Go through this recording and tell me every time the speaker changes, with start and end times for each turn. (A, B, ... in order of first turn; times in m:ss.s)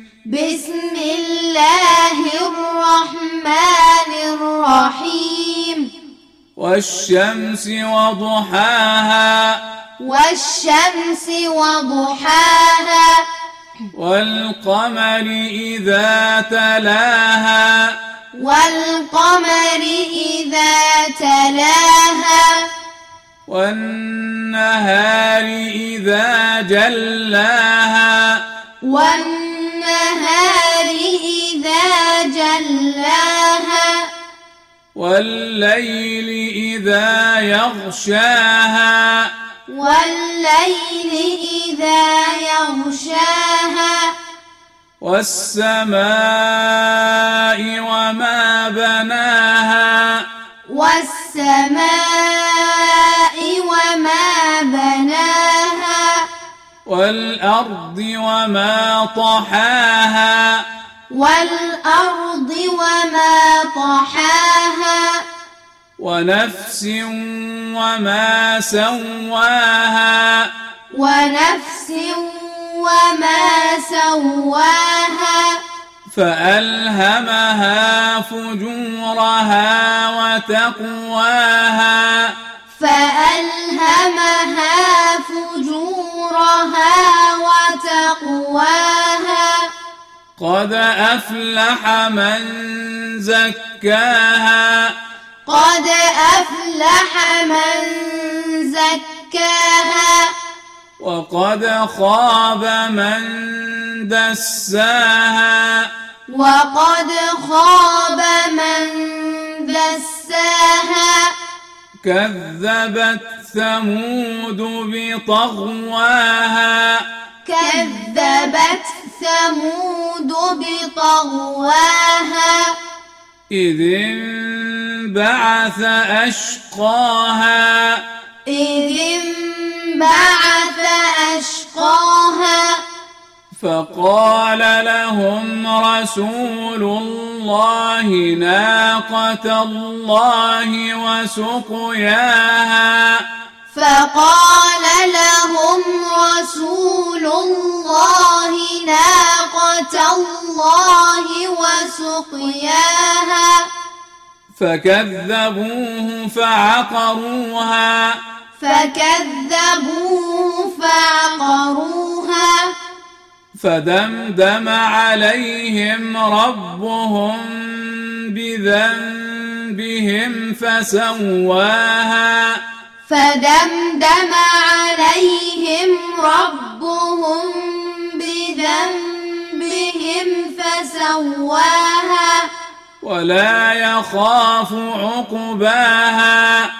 0:00.3-0:05.9 A
0:06.6-0:09.6 B
0:10.0-0:13.2 A
0:13.9-0:18.0 B
0:18.3-0:22.7 A
0:23.5-0:28.4 B
0:28.8-0:34.1 A
0:34.9-0:39.3 B
0:39.7-0:44.1 A
0:45.0-0:50.2 B
0:50.7-0:56.3 A
0:56.8-1:00.6 B
1:01.1-1:05.2 A
1:06.0-1:10.5 B
1:10.9-1:15.6 A
1:16.1-1:22.3 B
1:22.7-1:29.7 A
1:30.4-1:34.9 B
1:35.4-1:40.3 A
1:41.0-1:45.9 B
1:46.3-1:51.3 A
1:52.0-1:57.0 B
1:57.4-2:02.8 A
2:03.5-2:08.0 B
2:08.4-2:12.8 A
2:13.5-2:23.2 B
2:23.7-2:33.7 A
2:34.5-2:38.2 B
2:38.6-2:42.7 A
2:43.6-2:52.6 B
2:53.0-3:02.5 A
3:03.0-3:06.7 B